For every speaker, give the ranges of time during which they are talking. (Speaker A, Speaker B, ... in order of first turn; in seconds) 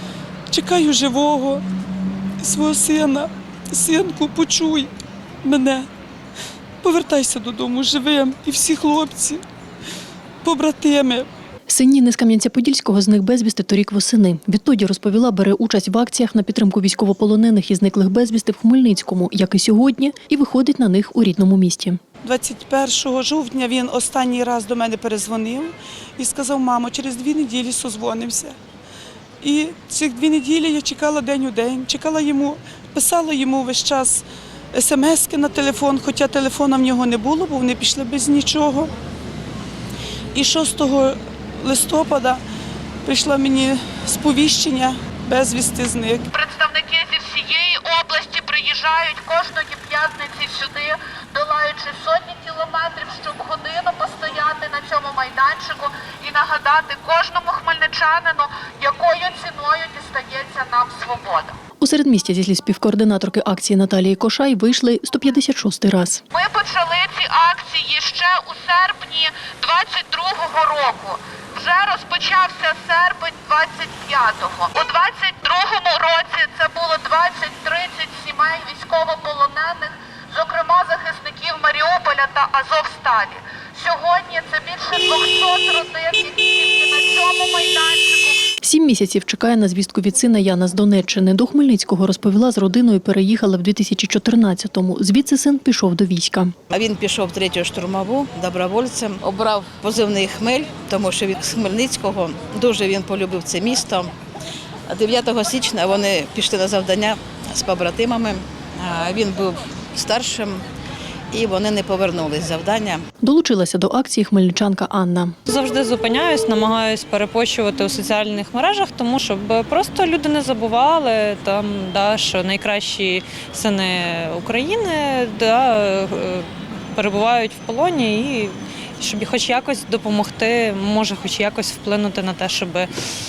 Speaker A: 0.5-1.6, 2.4-4.9, 5.4-5.9, 6.8-9.4, 10.4-11.2, 22.2-28.6, 29.4-38.9, 40.4-42.4, 43.0-46.2
Speaker B: 11.7-22.0, 61.8-66.2, 88.6-96.5, 113.2-115.3
Speaker C: 46.3-61.6, 66.3-88.4
Speaker D: 96.7-104.1, 104.9-110.6, 111.3-113.0
Speaker E: 115.5-132.9